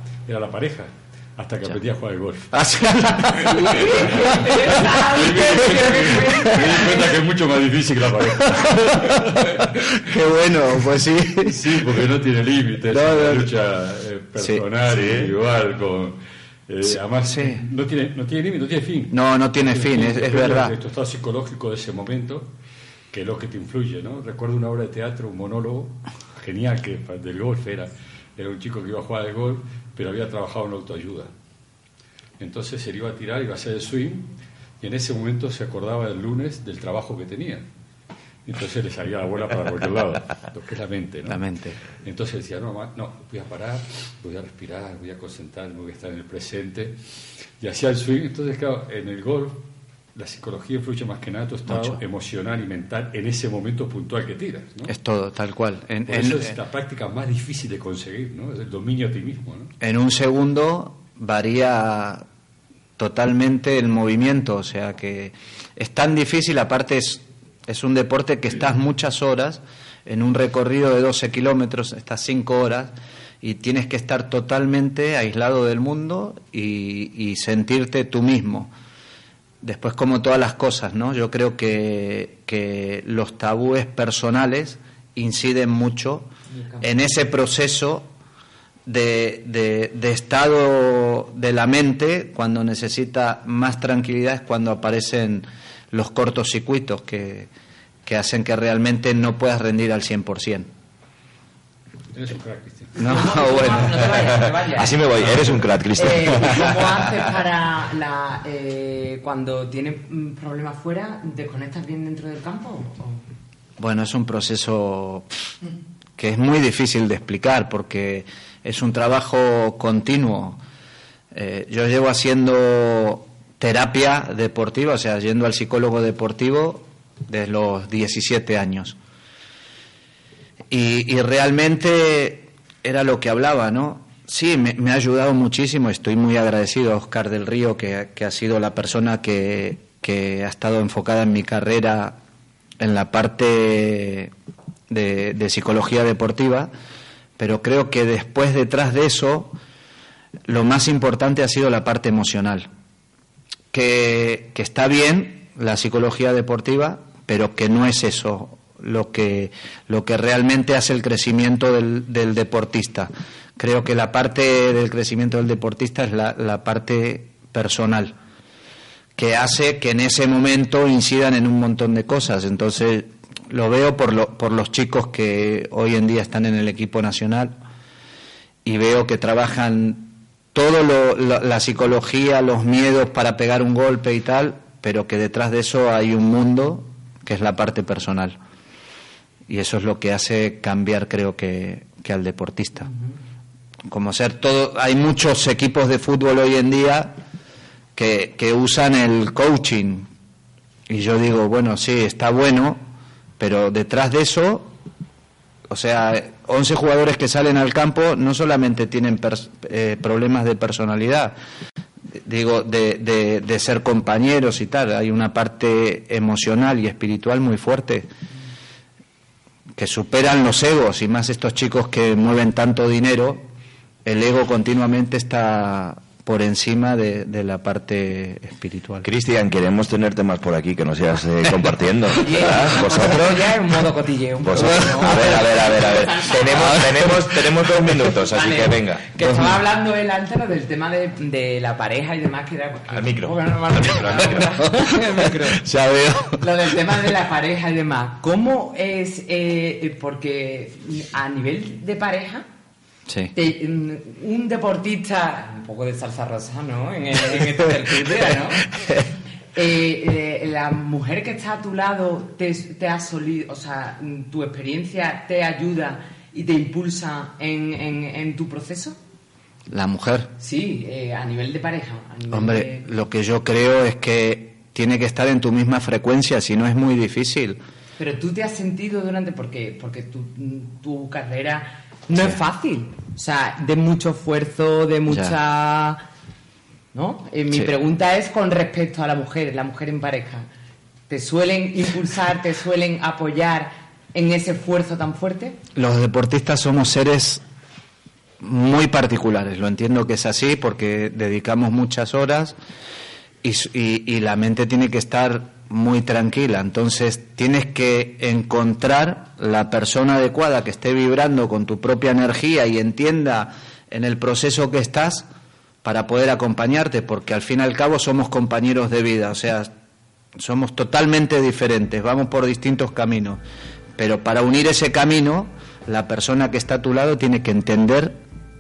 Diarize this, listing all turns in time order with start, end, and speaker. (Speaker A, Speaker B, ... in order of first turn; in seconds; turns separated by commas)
Speaker A: 0.3-2.5, Speaker B: 2.5-4.4, Speaker A: 3.4-10.0, Speaker C: 3.6-7.1, Speaker B: 8.4-11.9, Speaker A: 11.4-22.5, Speaker B: 12.9-13.5, Speaker B: 14.4-15.2, Speaker B: 16.9-17.6, Speaker B: 19.1-20.7, Speaker A: 23.1-31.3, Speaker A: 32.4-37.7, Speaker A: 38.5-47.0, Speaker B: 41.3-41.8, Speaker A: 47.6-54.9, Speaker B: 51.7-52.0, Speaker B: 54.9-56.5, Speaker A: 56.1-59.7, Speaker B: 59.8-62.2, Speaker B: 63.0-78.7, Speaker B: 79.6-86.3, Speaker C: 86.5-86.8, Speaker B: 86.8-88.1, Speaker B: 88.9-97.5, Speaker B: 98.1-100.7, Speaker A: 102.1-103.2, Speaker C: 103.0-105.1, Speaker B: 103.0-104.2, Speaker D: 104.1-107.2, Speaker C: 106.0-113.2, Speaker B: 113.8-115.3, Speaker B: 116.2-120.6, Speaker B: 121.3-129.0, Speaker B: 130.7-142.2, Speaker B: 142.8-144.3, Speaker B: 144.9-146.7, Speaker B: 147.4-149.6, Speaker B: 150.5-152.7, Speaker B: 153.7-168.1, Speaker B: 169.2-177.5, Speaker B: 178.7-188.4, Speaker B: 189.5-192.9, Speaker B: 193.9-197.1, Speaker B: 198.0-200.1, Speaker B: 200.9-202.8, Speaker B: 203.4-204.7, Speaker B: 205.7-211.3, Speaker B: 212.2-218.1, Speaker B: 219.8-223.4, Speaker B: 224.1-229.1, Speaker D: 229.0-233.5, Speaker C: 232.2-236.9, Speaker D: 234.4-239.1, Speaker B: 234.5-235.5, Speaker B: 236.4-238.1, Speaker C: 238.2-245.6, Speaker B: 239.2-239.6, Speaker D: 242.9-244.7, Speaker B: 244.6-246.4, Speaker C: 246.4-252.4, Speaker B: 253.1-253.3, Speaker C: 253.3-258.7, Speaker C: 259.6-269.0, Speaker B: 269.7-270.3, Speaker C: 270.4-272.9, Speaker B: 272.3-277.6, Speaker C: 278.0-286.0, Speaker B: 285.1-285.4, Speaker C: 286.9-290.5, Speaker C: 291.1-295.6, Speaker B: 295.8-297.4, Speaker B: 298.4-302.6, Speaker B: 303.4-315.3, Speaker B: 315.8-319.7, Speaker B: 320.4-323.4, Speaker B: 324.0-328.2